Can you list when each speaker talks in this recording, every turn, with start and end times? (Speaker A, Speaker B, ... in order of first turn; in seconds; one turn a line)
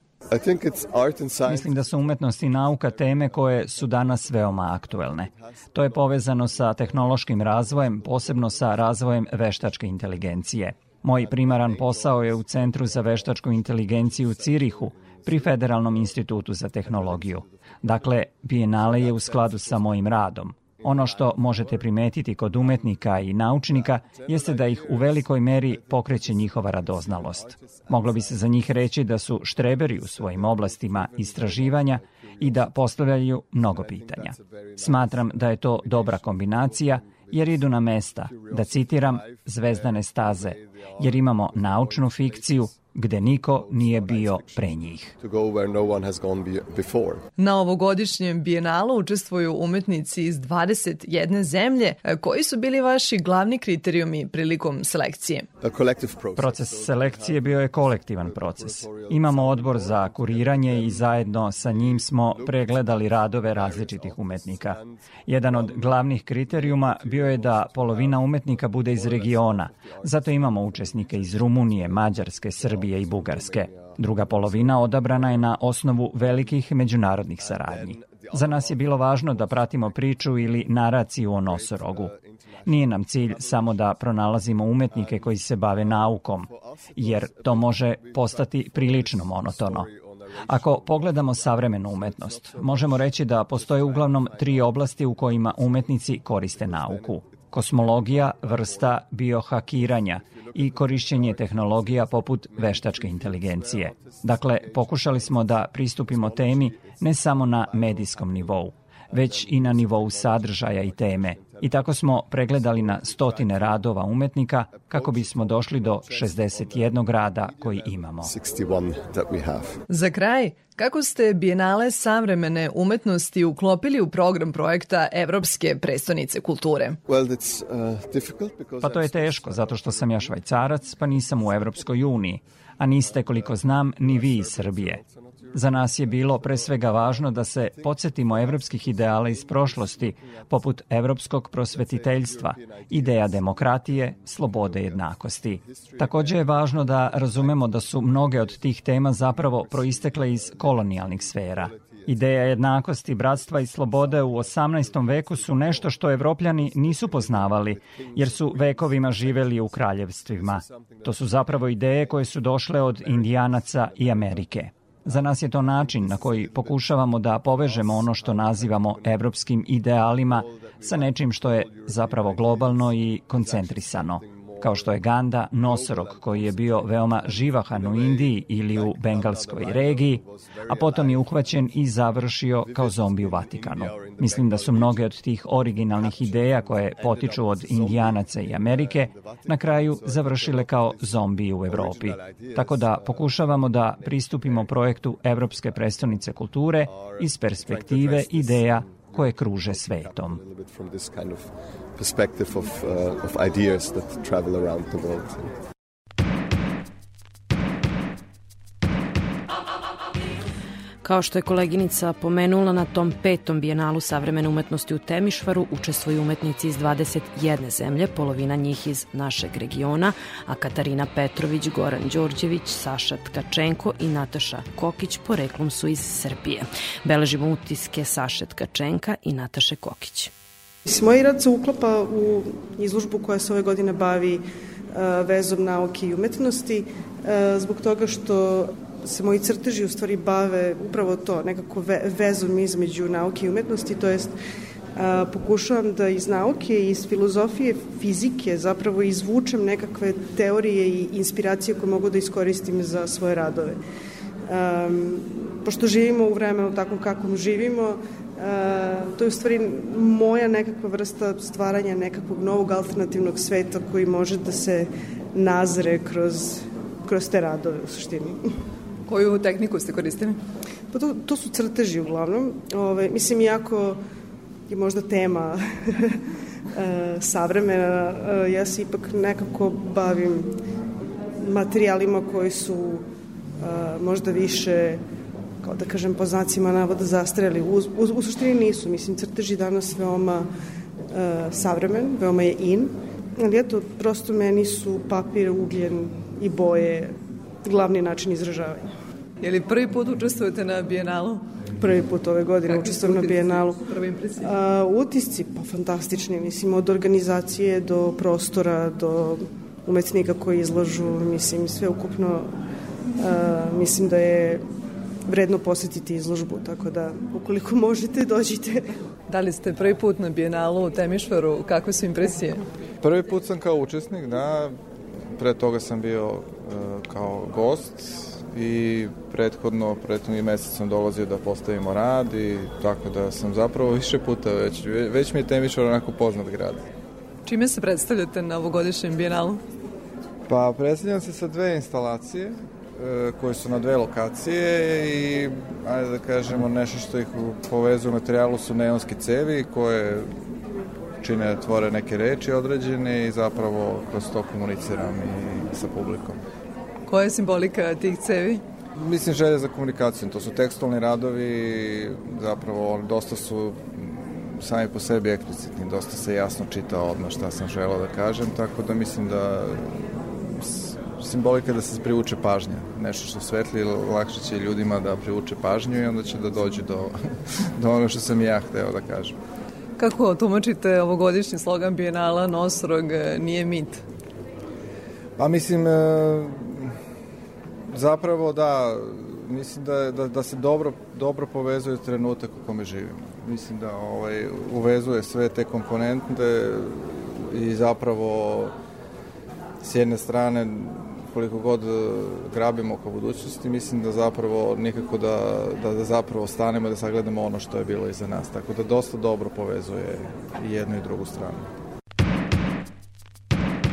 Speaker A: 0.3-47.3
Speaker B: 1.5-45.1
Speaker C: 47.4-55.5
Speaker A: 55.6-76.6
Speaker B: 56.4-82.1
Speaker A: 77.3-84.0
Speaker B: 82.7-89.9
Speaker A: 84.8-119.8
Speaker B: 90.5-118.3
Speaker C: 119.9-127.0
Speaker A: 127.1-132.3
Speaker B: 128.8-135.0
Speaker A: 132.9-169.4
Speaker B: 135.5-200.4
Speaker A: 170.0-182.0
Speaker A: 182.5-205.5
Speaker D: 211.0-230.3
Speaker E: 230.9-244.3
Speaker E: 245.0-253.8
Speaker E: 254.5-268.4
Speaker C: 269.1-270.4
Speaker E: 270.9-274.0
Speaker E: 274.7-276.2
Speaker E: 276.7-280.5
Speaker E: 281.4-283.0
Speaker E: 283.6-285.0
Speaker E: 285.6-290.5
Speaker E: 291.1-298.9
Speaker C: 299.4-301.5
Speaker E: 301.8-303.8
Speaker C: 302.6-304.5
Speaker E: 304.4-312.5
Speaker E: 313.2-314.6
Speaker E: 315.3-318.8
Speaker C: 319.3-322.7
Speaker F: 323.0-324.8
Speaker F: 325.4-336.8
Speaker C: 337.5-339.6
Speaker F: 340.5-350.3
Speaker F: 351.2-356.4
Speaker C: 357.1-358.6
Speaker F: 359.0-377.2
Speaker F: 377.8-379.4
Speaker C: 380.0-384.0
Speaker F: 385.4-386.9
Speaker F: 387.9-398.7
Speaker F: 399.8-411.7